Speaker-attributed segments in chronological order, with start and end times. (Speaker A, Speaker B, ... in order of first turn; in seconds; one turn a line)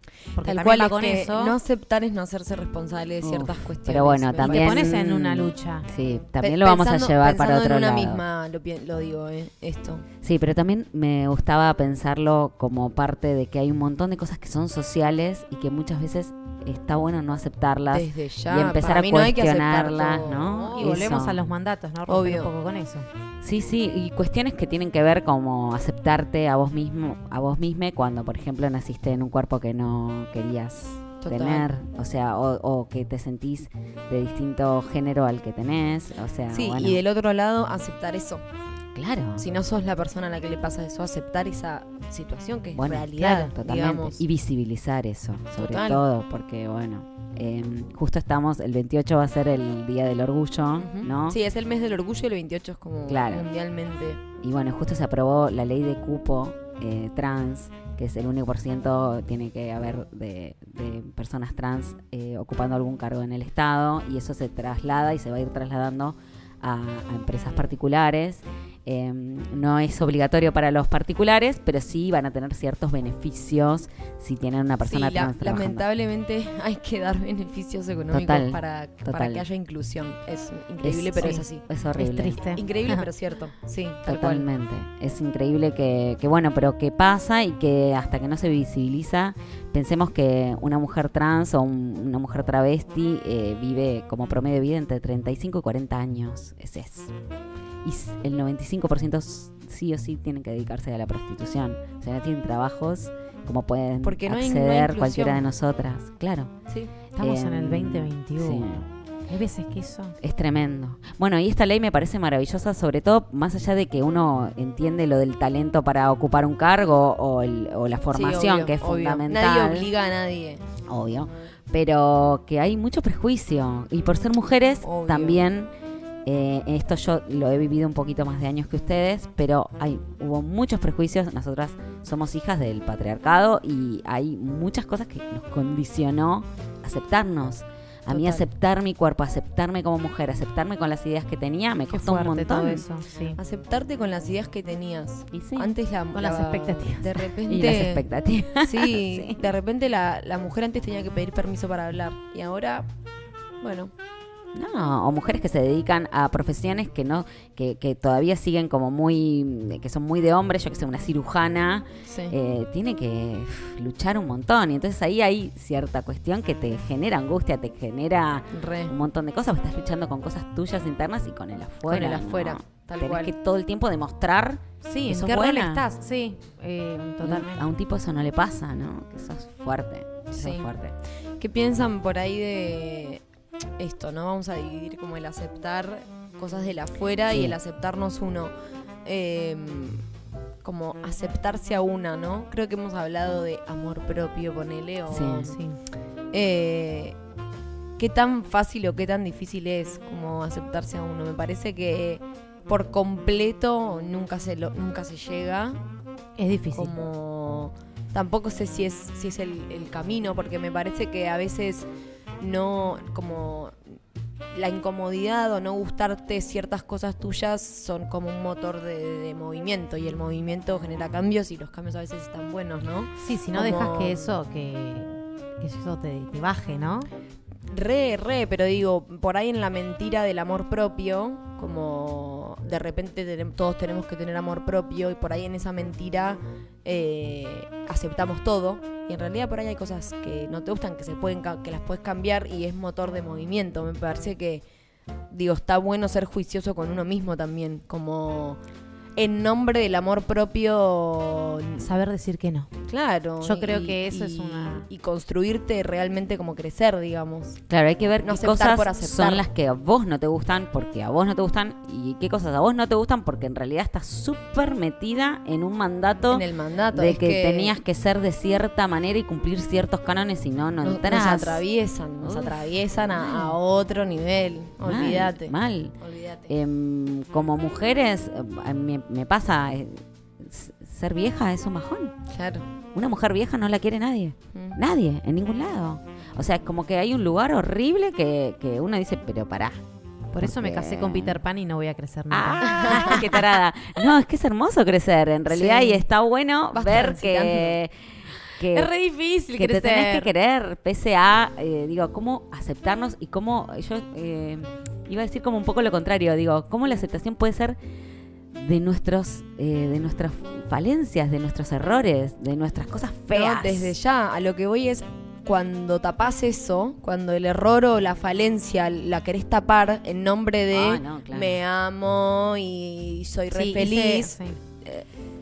Speaker A: 0.4-1.6
Speaker B: 0.4-4.9
Speaker C: 3.2-8.2
Speaker A: 4.4-5.9
Speaker B: 6.4-10.1
Speaker C: 10.2-21.4
Speaker B: 17.9-20.7
Speaker A: 20.6-23.1
Speaker B: 22.1-22.5
Speaker C: 23.4-37.0
Speaker B: 31.2-31.8
Speaker B: 36.5-38.4
Speaker C: 39.0-39.5
Speaker B: 39.4-44.2
Speaker C: 42.8-51.4
Speaker B: 45.6-46.0
Speaker B: 50.8-54.2
Speaker C: 53.1-53.5
Speaker C: 54.4-75.8
Speaker B: 74.8-81.6
Speaker C: 78.1-79.4
Speaker C: 80.8-82.4
Speaker A: 81.2-81.5
Speaker A: 82.0-83.1
Speaker B: 82.5-84.5
Speaker C: 84.1-97.1
Speaker C: 97.8-106.5
Speaker B: 104.0-105.5
Speaker B: 106.7-106.9
Speaker A: 107.2-108.7
Speaker C: 107.2-108.8
Speaker A: 109.3-110.2
Speaker C: 110.2-119.9
Speaker B: 118.1-120.6
Speaker C: 120.9-125.7
Speaker B: 124.8-125.4
Speaker C: 126.3-142.8
Speaker B: 138.1-138.4
Speaker A: 141.9-143.4
Speaker B: 143.4-148.1
Speaker C: 145.3-145.7
Speaker A: 146.1-147.2
Speaker C: 147.5-149.4
Speaker B: 148.6-152.9
Speaker B: 153.6-153.9
Speaker C: 154.5-175.8
Speaker B: 162.1-162.3
Speaker B: 168.5-168.9
Speaker B: 171.9-173.3
Speaker A: 171.9-172.2
Speaker A: 174.8-177.7
Speaker C: 177.2-180.9
Speaker B: 180.3-180.7
Speaker B: 181.4-183.2
Speaker B: 183.8-188.5
Speaker C: 187.3-187.6
Speaker B: 189.1-190.0
Speaker B: 190.6-195.6
Speaker C: 195.1-195.5
Speaker A: 195.5-195.8
Speaker B: 196.3-197.2
Speaker B: 198.0-205.8
Speaker A: 206.4-206.9
Speaker B: 206.7-211.9
Speaker B: 212.4-214.0
Speaker B: 214.5-224.4
Speaker A: 223.2-227.1
Speaker B: 227.7-244.6
Speaker B: 245.3-248.6
Speaker B: 249.2-251.9
Speaker A: 251.8-252.7
Speaker B: 252.9-257.6
Speaker A: 253.4-254.9
Speaker C: 257.7-271.6
Speaker B: 258.2-259.4
Speaker B: 266.3-267.8
Speaker B: 270.8-276.5
Speaker C: 272.2-273.5
Speaker C: 274.8-275.9
Speaker C: 276.5-282.2
Speaker B: 282.3-282.7
Speaker C: 282.9-289.8
Speaker B: 284.5-284.8
Speaker A: 290.3-293.5
Speaker C: 290.4-291.4
Speaker C: 292.3-297.9
Speaker B: 292.7-293.2
Speaker B: 295.5-296.1
Speaker B: 296.7-297.8
Speaker C: 298.6-298.9
Speaker A: 298.7-300.3
Speaker C: 299.6-307.8
Speaker C: 308.5-313.9
Speaker B: 313.3-325.0
Speaker C: 320.7-321.6
Speaker A: 323.5-324.6